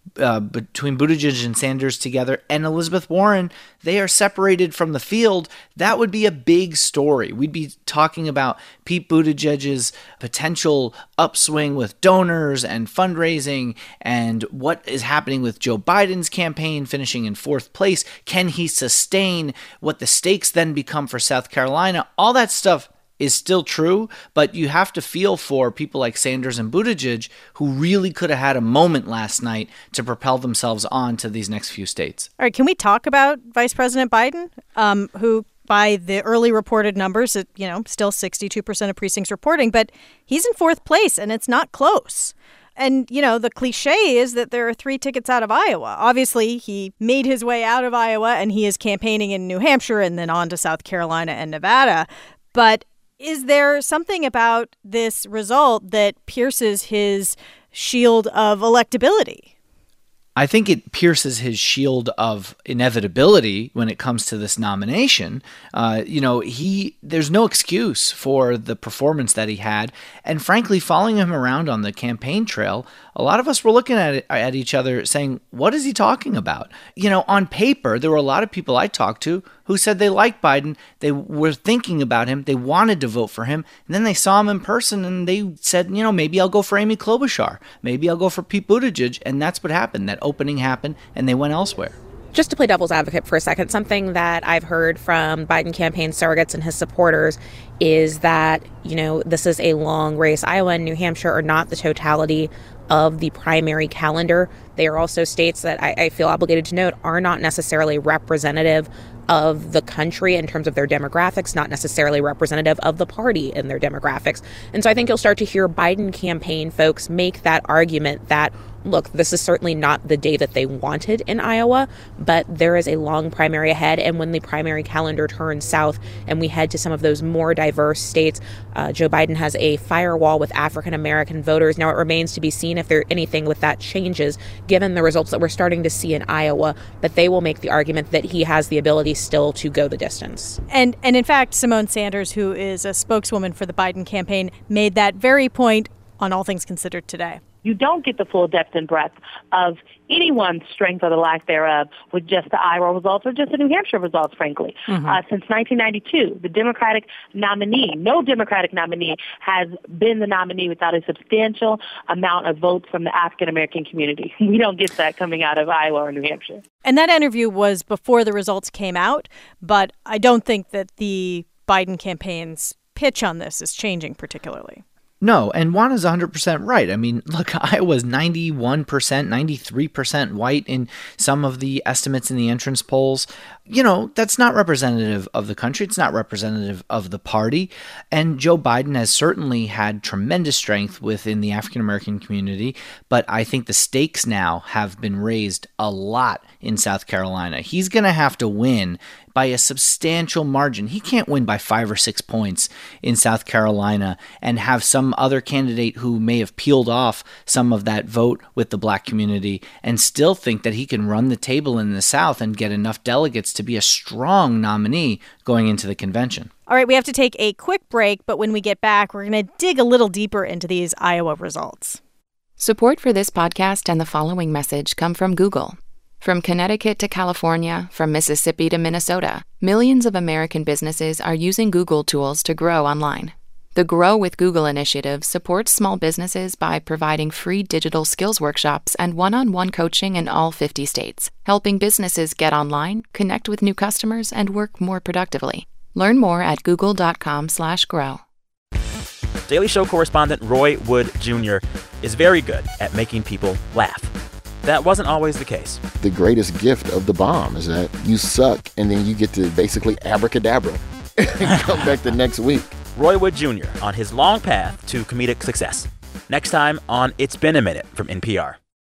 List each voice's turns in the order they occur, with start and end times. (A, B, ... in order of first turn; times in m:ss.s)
0:00.2-0:32.3 A
0:32.4-0:59.5 B
1:00.4-1:32.0 A
1:32.3-2:20.6 C
2:20.7-2:27.4 B
2:27.6-2:46.6 D
2:46.8-2:54.8 B
2:55.2-3:36.5 A
3:36.7-3:42.0 B
3:42.6-4:08.2 E
4:09.5-4:15.8 F
4:16.0-4:22.7 G
4:21.6-4:21.9 F
4:23.0-4:28.6 F